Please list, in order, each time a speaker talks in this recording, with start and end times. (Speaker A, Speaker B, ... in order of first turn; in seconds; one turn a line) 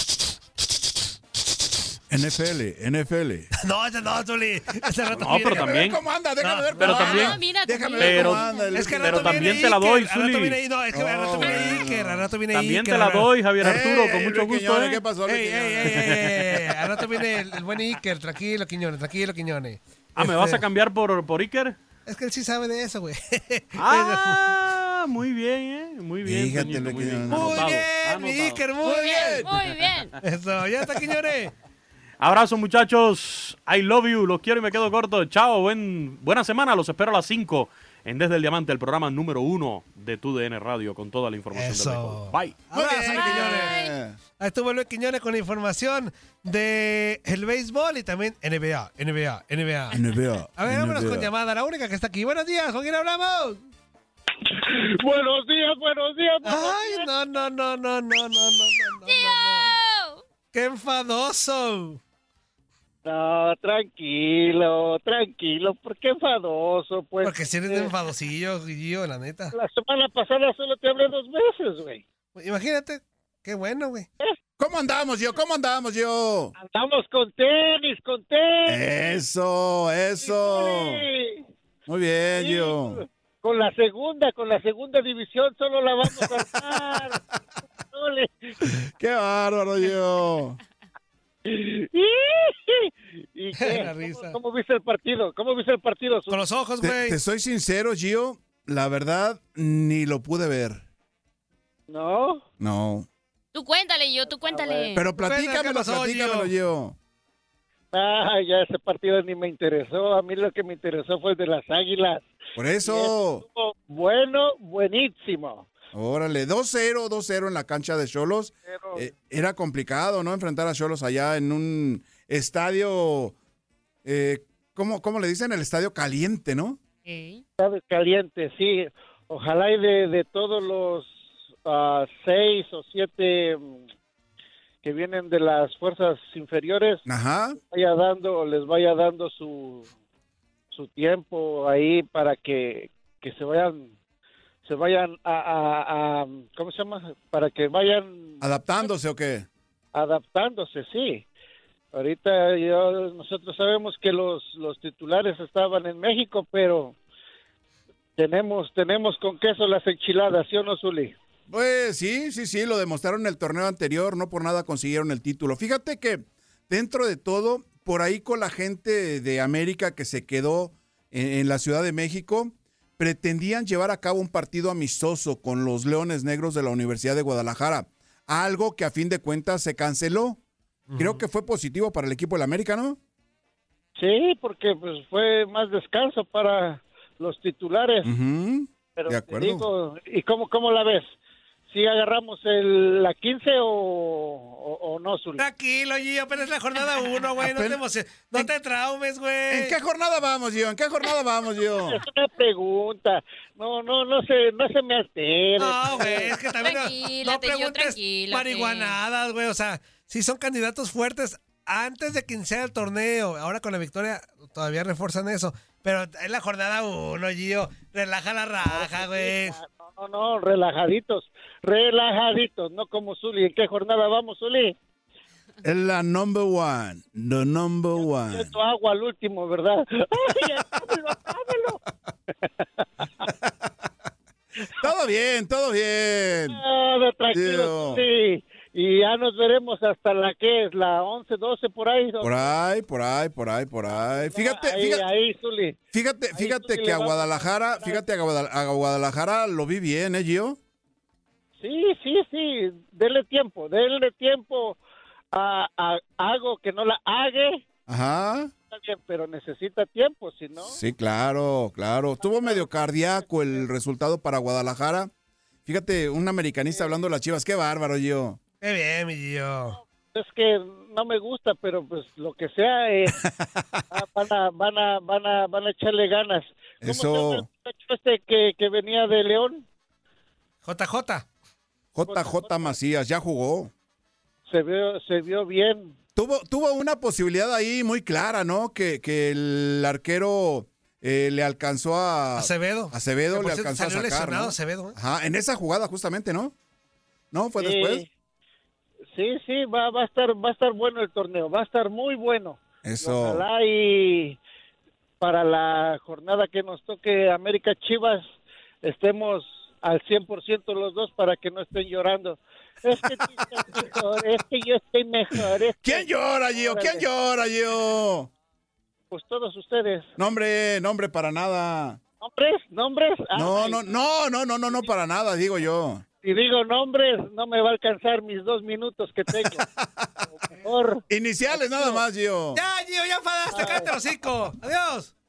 Speaker A: 2.1-3.5
Speaker B: 3.6-7.3
Speaker C: 5.1-6.0
Speaker A: 5.1-9.6
Speaker C: 6.8-7.3
Speaker D: 6.8-9.6
Speaker C: 8.0-8.4
Speaker B: 8.7-13.3
Speaker C: 9.0-10.6
Speaker A: 10.9-12.3
Speaker C: 12.5-15.0
Speaker A: 13.6-16.4
Speaker B: 15.2-20.6
Speaker C: 15.9-16.2
Speaker C: 20.1-21.8
Speaker B: 22.1-24.4
Speaker C: 23.8-28.7
Speaker A: 26.2-27.8
Speaker B: 27.3-29.5
Speaker D: 28.8-30.1
Speaker A: 28.9-29.6
Speaker B: 30.2-31.5
Speaker C: 32.2-42.6
Speaker B: 41.5-43.7
Speaker A: 42.7-44.2
Speaker D: 43.1-43.9
Speaker B: 44.4-50.0
Speaker A: 49.9-51.3
Speaker B: 50.6-53.6
Speaker E: 54.6-57.1
Speaker B: 56.4-59.7
Speaker D: 59.1-60.2
Speaker B: 60.5-62.0
Speaker E: 63.0-67.9
Speaker B: 67.2-69.5
Speaker E: 69.5-72.0
Speaker B: 72.3-74.1
Speaker A: 74.6-76.5
Speaker E: 76.5-78.8
Speaker A: 78.7-81.1
Speaker E: 80.2-81.4
Speaker A: 81.9-83.0
Speaker E: 82.3-87.2
Speaker E: 87.9-88.5
Speaker A: 88.7-90.6
Speaker E: 91.4-96.5
Speaker B: 93.6-94.4
Speaker B: 96.3-97.2
Speaker A: 96.8-100.8
Speaker E: 101.9-102.4
Speaker A: 102.6-103.1
Speaker D: 103.5-105.0
Speaker E: 104.3-104.9
Speaker A: 104.9-107.0
Speaker B: 105.2-106.5
Speaker E: 107.9-112.3
Speaker A: 112.5-113.4
Speaker E: 112.8-115.7
Speaker A: 115.9-123.3
Speaker E: 118.7-119.1
Speaker A: 124.0-126.8
Speaker D: 127.0-127.4
Speaker E: 127.6-133.8
Speaker E: 134.8-137.0
Speaker A: 137.1-137.6
Speaker E: 137.6-139.9
Speaker E: 140.7-143.9
Speaker E: 144.6-148.4
Speaker A: 148.4-149.5
Speaker E: 149.9-151.2
Speaker E: 151.9-156.9
Speaker E: 158.2-161.2
Speaker A: 161.5-180.4
Speaker B: 180.9-181.2
Speaker A: 181.0-183.0
Speaker E: 183.9-188.1
Speaker A: 188.0-189.7
Speaker E: 188.9-191.1
Speaker E: 191.7-195.4
Speaker B: 195.4-199.8
Speaker A: 197.4-197.8
Speaker A: 199.5-202.0
Speaker E: 201.8-206.4
Speaker B: 205.6-219.6
Speaker D: 206.1-209.0
Speaker E: 218.6-224.7
Speaker A: 225.6-228.5
Speaker E: 228.0-231.8
Speaker A: 234.7-236.6
Speaker E: 236.5-242.5
Speaker A: 237.3-238.0
Speaker A: 242.2-245.0
Speaker E: 244.1-245.8
Speaker A: 245.9-250.6
Speaker E: 246.3-248.0
Speaker E: 251.6-254.8
Speaker E: 255.3-257.6
Speaker A: 257.9-258.5
Speaker E: 258.7-260.8
Speaker A: 260.6-265.1
Speaker E: 262.2-263.6
Speaker A: 265.6-268.4
Speaker B: 268.6-269.8
Speaker E: 270.1-273.2
Speaker A: 273.1-273.8
Speaker E: 273.9-279.6
Speaker A: 276.8-277.4
Speaker B: 280.6-281.3
Speaker A: 281.9-283.7
Speaker E: 282.1-282.7
Speaker E: 284.5-285.9
Speaker A: 286.1-296.5
Speaker B: 292.4-294.9
Speaker A: 297.3-298.0
Speaker E: 297.6-298.1
Speaker E: 299.1-304.4
Speaker A: 302.8-303.4
Speaker E: 305.2-308.2
Speaker E: 308.8-317.0
Speaker A: 315.8-318.3
Speaker E: 319.1-320.1
Speaker A: 320.2-322.0
Speaker E: 322.2-323.9
Speaker A: 323.3-326.0
Speaker E: 326.2-329.6
Speaker A: 329.3-330.1
Speaker E: 330.4-331.0
Speaker A: 331.1-332.6
Speaker B: 332.5-335.1
Speaker E: 333.5-333.9